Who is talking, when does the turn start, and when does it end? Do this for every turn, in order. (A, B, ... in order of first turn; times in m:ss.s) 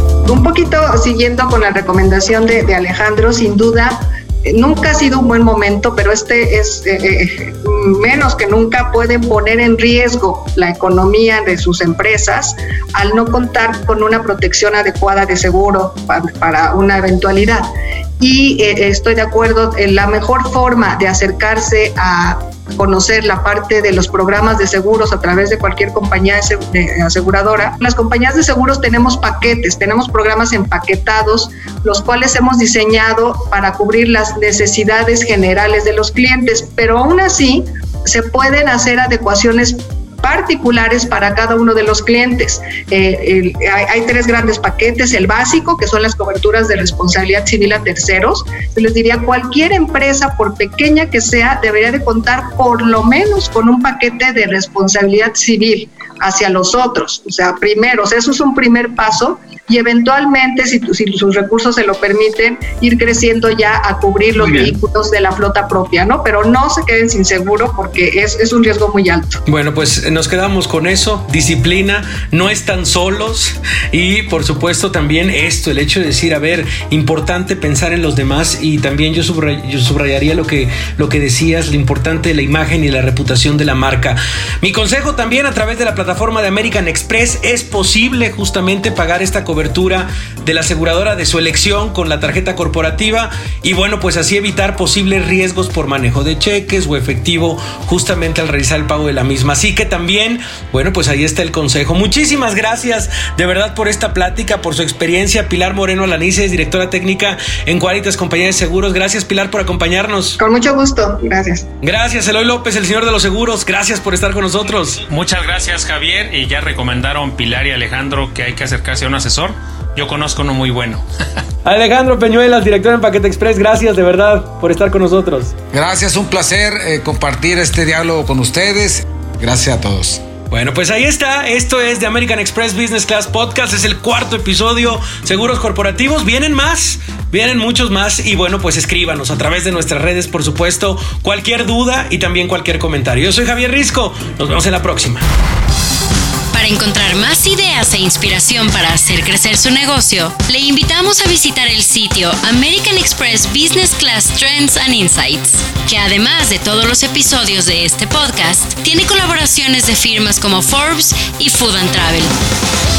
0:00.3-0:17.7 A
0:18.2-1:09.4 A
1:04.4-1:04.8 B
1:09.5-1:50.4 B
1:50.4-1:51.7 A
1:51.8-1:55.0 B
1:55.1-2:01.1 C
2:01.6-2:05.5 B
2:05.7-2:10.2 D
2:10.5-2:25.2 B
2:26.5-2:42.3 E